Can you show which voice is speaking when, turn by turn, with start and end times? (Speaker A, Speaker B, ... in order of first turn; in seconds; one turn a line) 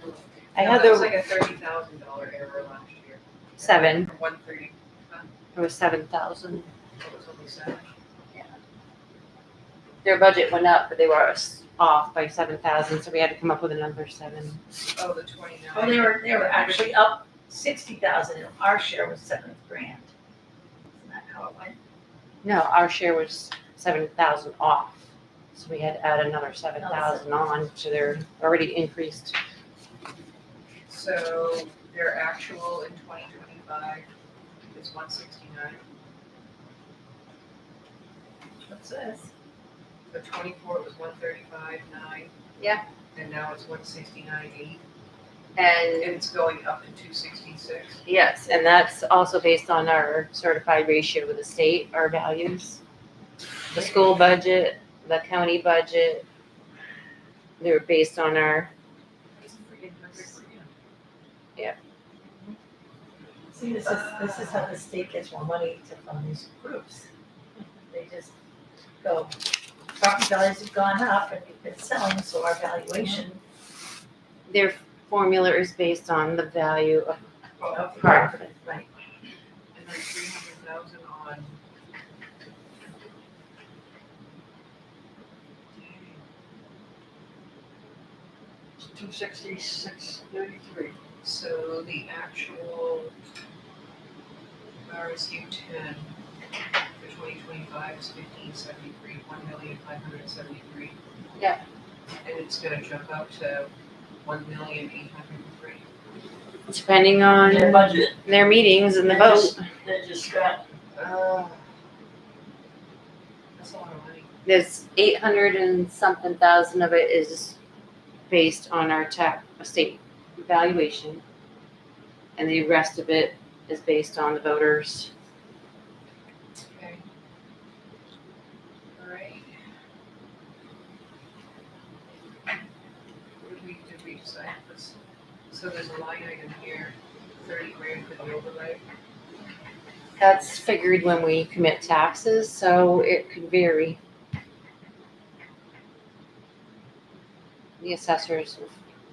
Speaker A: 0.6-1.2
Speaker B: 0.6-5.3
Speaker A: 3.6-4.1
Speaker A: 5.5-6.7
Speaker B: 7.0-7.9
Speaker A: 10.0-14.6
Speaker B: 14.9-17.0
Speaker C: 15.7-20.1
Speaker C: 20.9-21.8
Speaker A: 22.4-25.0
Speaker A: 25.5-29.4
Speaker C: 26.8-27.3
Speaker B: 30.9-34.1
Speaker B: 34.7-35.8
Speaker C: 38.6-39.3
Speaker B: 40.1-42.3
Speaker B: 43.1-44.8
Speaker A: 45.6-46.1
Speaker B: 46.0-48.0
Speaker A: 48.0-52.8
Speaker A: 53.7-56.2
Speaker A: 57.6-58.7
Speaker D: 59.8-60.6
Speaker B: 60.1-60.3
Speaker C: 63.5-67.1
Speaker B: 63.9-64.7
Speaker C: 67.9-68.3
Speaker C: 69.0-69.4
Speaker C: 70.0-73.4
Speaker A: 74.5-77.2
Speaker B: 77.6-77.9
Speaker C: 77.7-78.9
Speaker A: 77.9-78.4
Speaker B: 79.7-81.6
Speaker B: 85.8-86.2
Speaker D: 88.8-91.0
Speaker B: 91.2-93.1
Speaker B: 94.8-96.2
Speaker B: 97.0-101.0
Speaker B: 102.2-103.7
Speaker B: 104.2-105.9
Speaker A: 106.7-109.6
Speaker D: 107.5-108.2
Speaker D: 109.0-110.6
Speaker B: 111.0-111.7
Speaker B: 113.6-114.3
Speaker A: 114.5-117.6
Speaker A: 118.3-121.2
Speaker A: 122.4-125.1
Speaker B: 126.7-127.0
Speaker B: 128.9-129.6
Speaker B: 133.4-135.0
Speaker B: 135.5-138.8
Speaker A: 140.2-144.0
Speaker A: 147.8-148.7